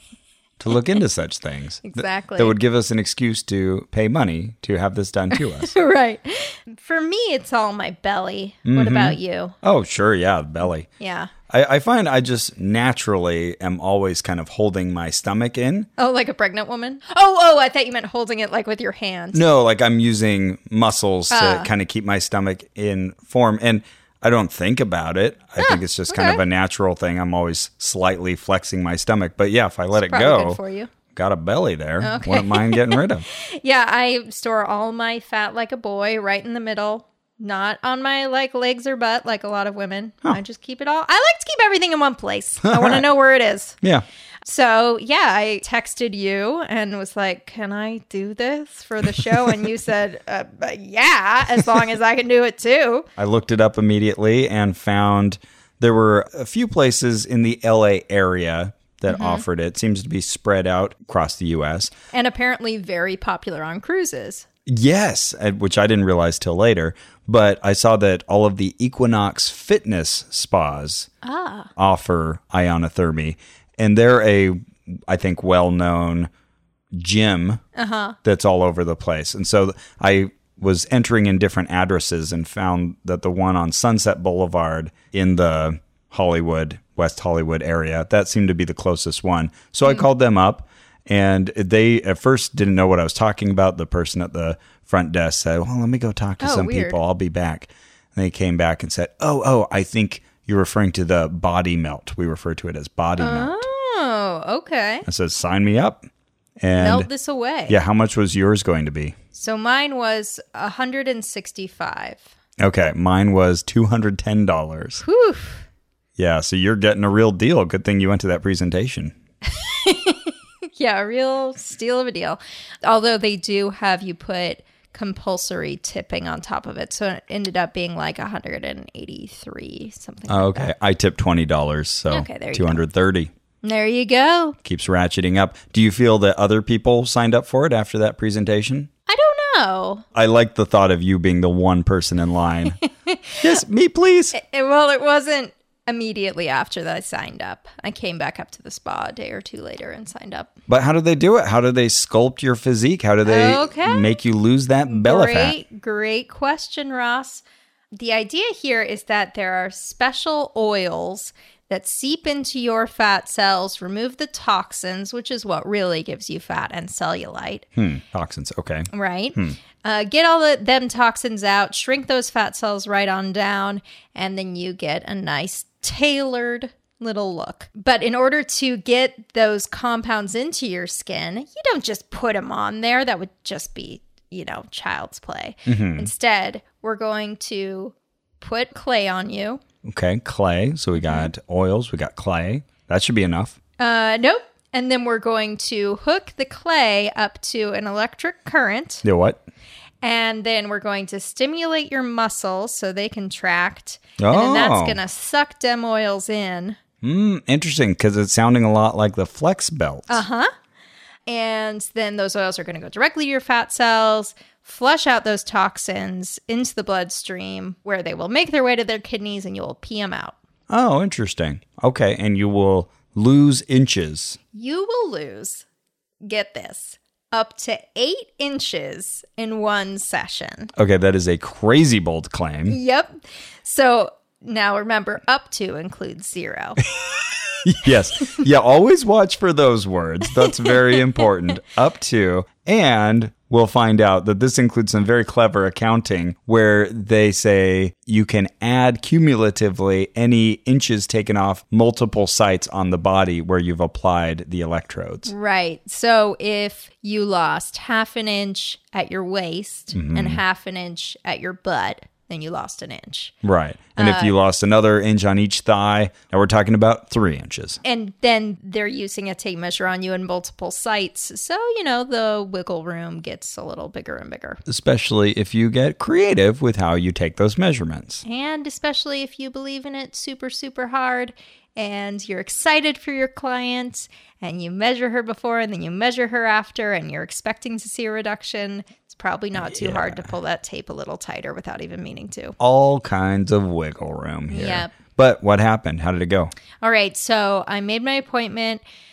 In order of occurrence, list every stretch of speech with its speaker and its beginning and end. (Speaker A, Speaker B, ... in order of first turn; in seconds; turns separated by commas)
Speaker A: 0.6-5.7, Speaker B: 1.8-2.5, Speaker B: 5.3-9.5, Speaker A: 8.7-10.9, Speaker B: 11.0-11.3, Speaker A: 11.5-15.9, Speaker B: 16.0-19.4, Speaker A: 19.3-30.6, Speaker B: 21.3-21.7, Speaker B: 25.6-26.4, Speaker B: 29.9-30.9, Speaker A: 31.1-33.2, Speaker B: 32.0-43.8, Speaker A: 42.6-43.0, Speaker B: 44.4-53.1, Speaker A: 49.2-49.5, Speaker A: 53.2-61.9, Speaker B: 59.1-59.4, Speaker B: 62.1-64.5, Speaker A: 64.7-71.1, Speaker B: 71.2-71.7, Speaker A: 71.8-76.3, Speaker A: 76.9-77.6, Speaker B: 77.7-78.2, Speaker A: 78.2-103.7, Speaker B: 96.4-97.0, Speaker B: 103.2-105.0, Speaker A: 105.0-106.0, Speaker A: 106.6-107.1, Speaker B: 106.7-107.8, Speaker A: 107.7-109.1, Speaker B: 109.3-112.3, Speaker A: 112.6-115.0, Speaker B: 115.0-115.6, Speaker A: 116.2-119.1, Speaker B: 119.5-130.7, Speaker A: 130.3-133.3, Speaker B: 132.1-132.8, Speaker B: 133.6-134.6, Speaker A: 134.6-138.9, Speaker B: 139.1-140.0, Speaker A: 140.1-142.8, Speaker B: 142.7-143.5, Speaker A: 143.4-144.3, Speaker B: 144.3-150.5, Speaker A: 150.7-155.6, Speaker B: 153.2-154.2, Speaker B: 154.8-167.7, Speaker A: 167.7-169.6, Speaker B: 168.9-189.6, Speaker A: 185.7-186.1, Speaker A: 189.8-193.6, Speaker B: 191.0-191.3, Speaker B: 193.8-199.0, Speaker A: 199.0-199.4, Speaker B: 200.0-206.8, Speaker A: 204.2-205.0, Speaker A: 207.0-210.2, Speaker B: 210.1-210.5, Speaker B: 211.3-220.4, Speaker A: 220.7-224.4, Speaker B: 224.5-225.6, Speaker B: 226.2-230.7, Speaker A: 230.8-232.8, Speaker B: 232.7-236.8, Speaker A: 237.6-255.3, Speaker B: 240.3-241.2, Speaker B: 255.2-263.3, Speaker A: 259.9-260.4, Speaker A: 263.4-267.8, Speaker B: 263.9-264.3, Speaker B: 267.8-274.6, Speaker A: 274.6-278.2, Speaker B: 278.2-292.6, Speaker A: 289.5-290.3, Speaker A: 292.6-296.5, Speaker B: 294.5-294.9, Speaker B: 296.8-298.8